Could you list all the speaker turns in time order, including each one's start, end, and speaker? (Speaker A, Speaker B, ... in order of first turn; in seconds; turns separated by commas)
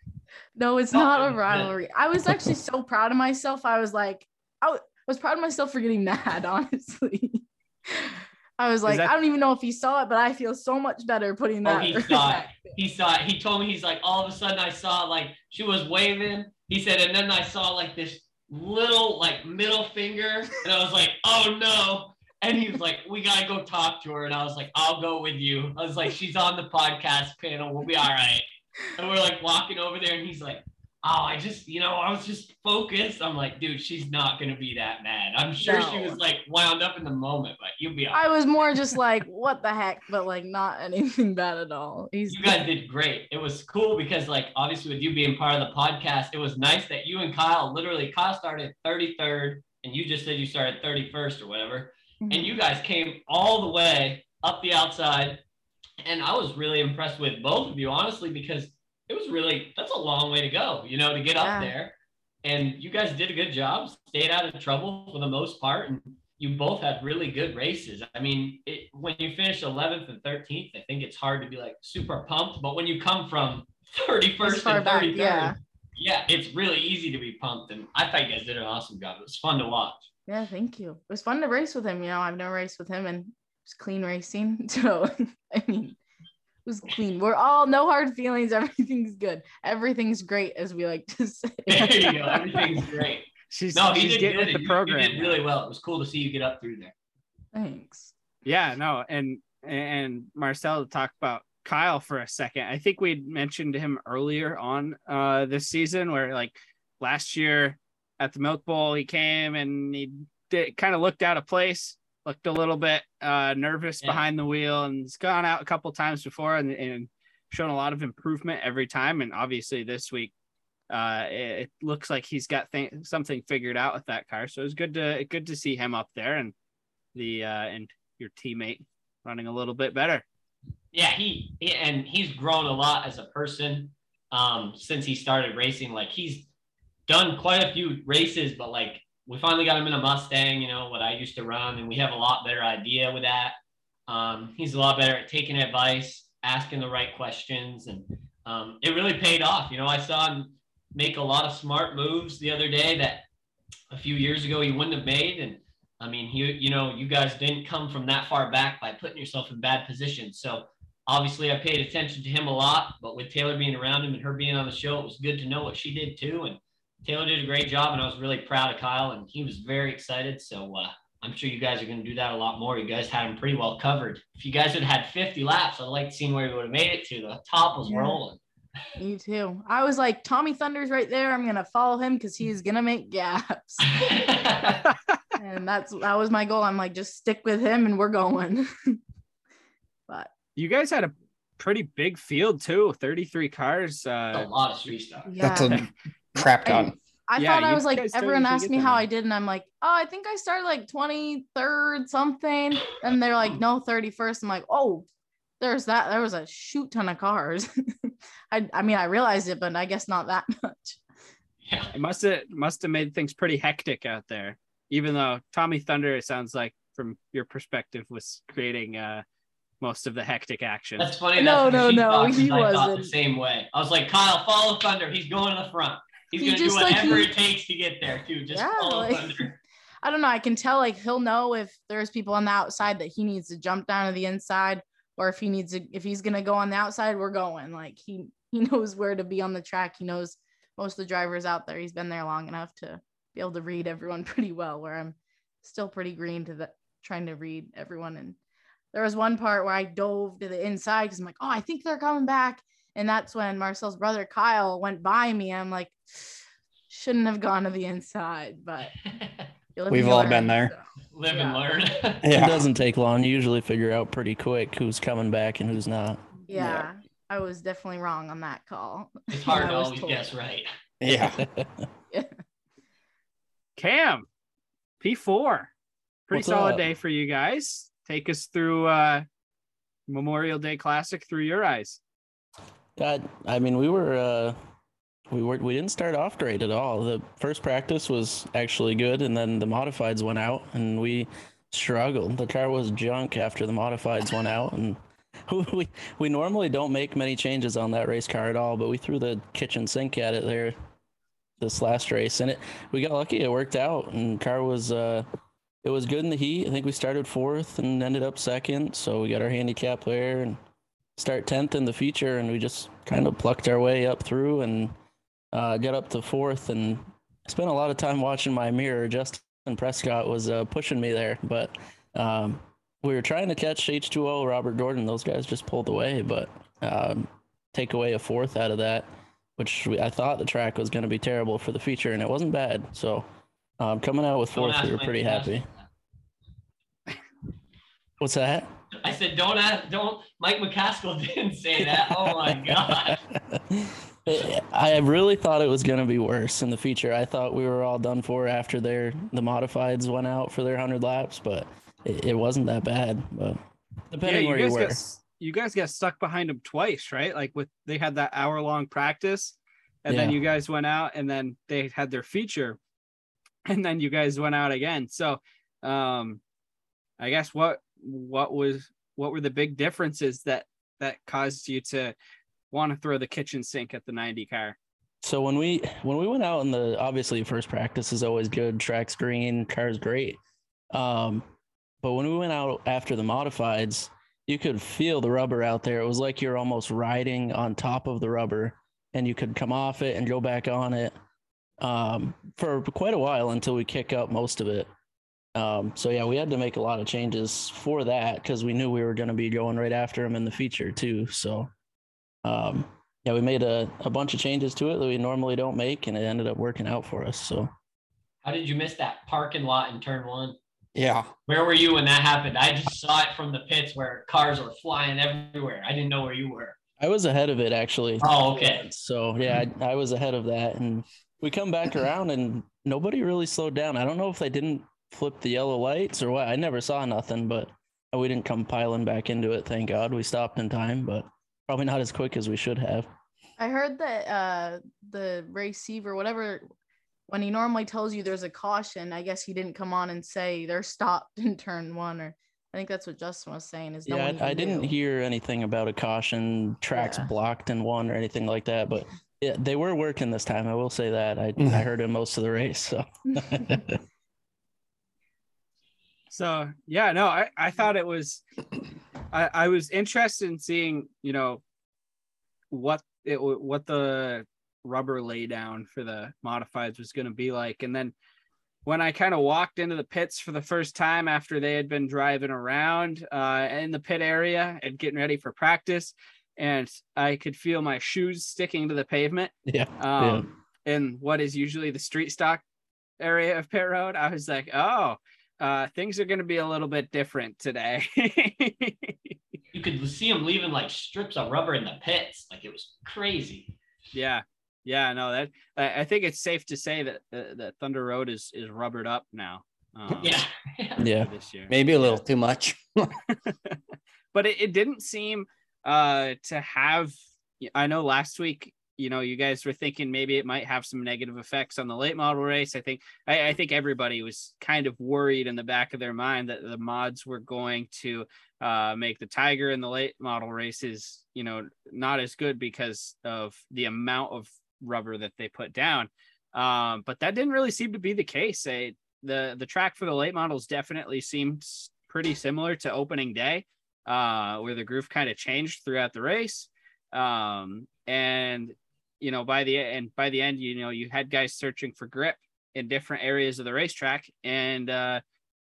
Speaker A: 0.6-12.8, Speaker B: 0.9-1.7, Speaker C: 8.9-9.1, Speaker B: 11.7-38.2, Speaker A: 35.6-36.2, Speaker A: 38.1-42.6, Speaker B: 42.3-55.4, Speaker A: 52.2-52.5, Speaker B: 56.0-80.1, Speaker A: 61.4-61.7, Speaker A: 74.4-75.5, Speaker A: 80.3-86.0, Speaker A: 86.7-92.8, Speaker B: 91.7-96.9, Speaker C: 93.5-95.4, Speaker A: 97.5-98.1, Speaker C: 98.5-120.3, Speaker C: 120.9-126.5, Speaker C: 127.1-130.2, Speaker B: 130.9-136.5, Speaker B: 137.1-143.6, Speaker B: 144.1-153.3, Speaker B: 153.9-178.4, Speaker A: 177.9-178.2, Speaker A: 179.0-184.0, Speaker B: 183.8-184.8, Speaker A: 185.4-189.0, Speaker C: 190.6-194.5, Speaker B: 194.3-195.3, Speaker A: 195.3-195.8, Speaker D: 195.4-197.0, Speaker A: 196.7-205.1, Speaker C: 197.4-199.0, Speaker A: 205.6-211.0, Speaker B: 211.7-211.9, Speaker C: 211.9-219.2, Speaker C: 219.8-221.1, Speaker B: 221.0-229.6, Speaker A: 221.4-223.1, Speaker A: 226.4-227.3, Speaker A: 228.5-229.5, Speaker A: 230.0-248.4, Speaker A: 248.9-256.4, Speaker A: 256.9-259.0, Speaker B: 259.1-259.4, Speaker A: 259.8-261.8, Speaker D: 259.9-260.7, Speaker B: 261.1-262.3, Speaker D: 262.2-262.7, Speaker E: 262.2-266.8, Speaker A: 266.5-270.3, Speaker B: 269.3-270.7, Speaker D: 271.0-271.4, Speaker E: 271.1-271.9, Speaker C: 273.8-274.3, Speaker C: 275.0-275.7, Speaker C: 276.3-279.2, Speaker E: 276.3-276.8, Speaker C: 280.1-282.0, Speaker E: 283.0-284.6, Speaker E: 285.3-300.7, Speaker E: 301.6-305.2, Speaker E: 305.8-310.6, Speaker E: 311.2-314.9, Speaker E: 315.5-329.1, Speaker E: 329.6-333.2, Speaker E: 333.8-335.7, Speaker B: 334.5-335.9, Speaker E: 338.2-338.7, Speaker B: 339.0-343.2, Speaker E: 342.3-353.6, Speaker E: 354.1-355.0, Speaker C: 354.2-362.8, Speaker E: 360.1-360.4, Speaker C: 363.7-366.4, Speaker C: 367.2-372.1, Speaker C: 372.7-374.8, Speaker E: 375.2-380.4, Speaker E: 380.9-381.4, Speaker E: 382.0-391.1, Speaker E: 391.8-394.9, Speaker E: 395.6-401.7, Speaker E: 402.4-407.7, Speaker B: 408.4-410.6, Speaker D: 410.9-411.3, Speaker B: 411.5-416.8, Speaker E: 417.0-433.1, Speaker B: 418.2-418.9, Speaker A: 433.6-436.6, Speaker A: 437.3-444.9, Speaker E: 444.1-454.0, Speaker A: 446.9-447.3, Speaker C: 456.3-458.4, Speaker C: 459.3-461.6, Speaker C: 462.7-468.1, Speaker C: 468.9-482.6, Speaker E: 479.7-480.5, Speaker C: 483.2-489.4, Speaker B: 489.7-493.7, Speaker C: 494.1-500.4, Speaker B: 500.1-501.0, Speaker E: 501.0-501.3, Speaker C: 501.1-502.2, Speaker D: 501.7-503.2, Speaker C: 503.4-503.8, Speaker C: 504.3-545.2